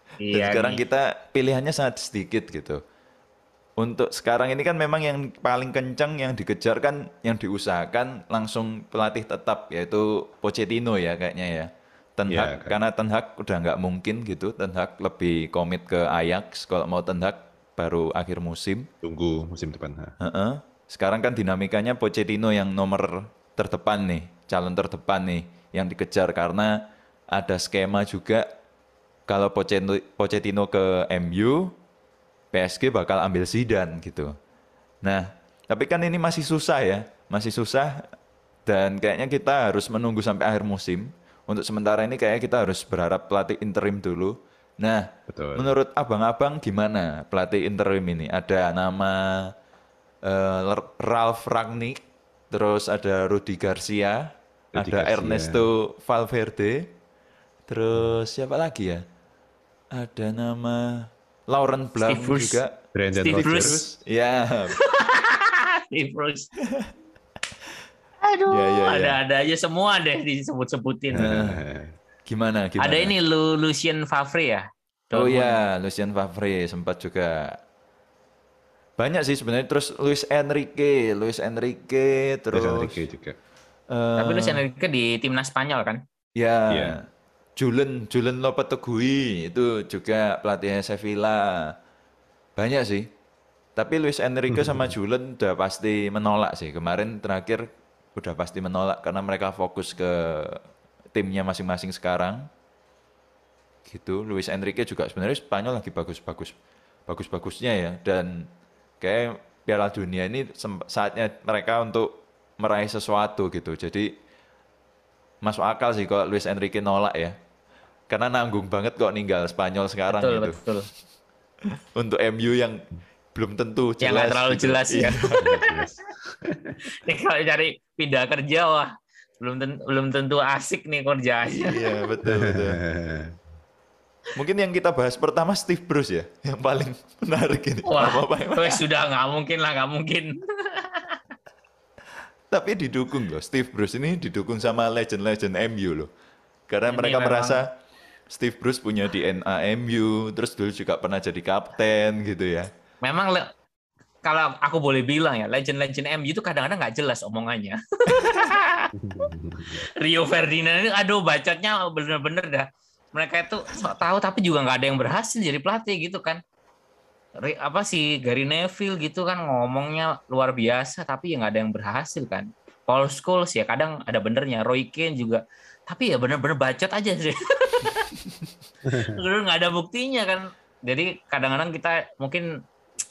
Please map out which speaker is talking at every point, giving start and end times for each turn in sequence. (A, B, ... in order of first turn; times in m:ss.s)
0:00.2-0:00.8 A
0:00.3-0:02.8 B
0:03.8-0:18.9 B
0:12.3-0:12.8 C
0:19.0-0:20.1 C
0:20.2-0:26.8 B
0:27.3-0:28.5 B
0:29.3-0:31.7 B
0:32.5-0:34.3 B
0:35.0-0:38.0 B
0:38.6-0:49.5 B
0:45.3-0:45.7 C
0:50.2-0:52.0 B
0:52.5-0:56.9 B
0:54.7-0:55.6 C
0:57.7-0:59.0 B
0:59.9-1:02.7 B
1:02.0-1:02.6 A
1:02.9-1:03.8 C
1:03.2-1:03.8 A
1:03.3-1:04.8 B
1:04.8-1:06.5 A
1:08.2-1:11.2 A
1:08.5-1:09.2 B
1:11.1-1:11.9 C
1:11.1-1:11.6 B
1:12.3-1:13.1 B
1:12.8-1:15.6 A
1:15.1-1:17.6 B
1:19.0-1:23.0 B
1:22.5-1:23.4 C
1:23.9-1:24.6 B
1:24.2-1:26.0 A
1:26.4-1:27.0 B
1:26.7-1:27.0 C
1:27.6-1:31.7 B
1:32.6-1:33.1 B
1:33.8-1:40.6 B
1:34.5-1:34.9 C
1:41.1-1:42.5 B
1:43.8-1:46.5 B
1:47.1-1:48.5 B
1:49.0-1:54.1 B
1:55.4-1:57.3 B
1:58.1-2:00.6 B
2:00.1-2:00.9 A
2:02.0-2:02.8 B
2:03.3-2:05.5 B
2:04.0-2:05.5 A
2:05.2-2:06.8 C
2:06.8-2:08.9 A
2:09.4-2:11.8 A
2:11.5-2:12.8 B
2:12.2-2:13.3 C
2:14.3-2:18.8 B
2:17.8-2:21.2 A
2:22.5-2:26.1 B
2:26.7-2:27.7 B
2:26.9-2:27.6 A
2:28.3-2:32.7 B
2:33.0-2:33.5 A
2:34.2-2:39.3 A
2:38.9-2:39.9 C
2:39.9-2:46.4 A
2:47.4-2:58.1 A
2:58.9-2:59.2 C
2:58.9-3:02.5 A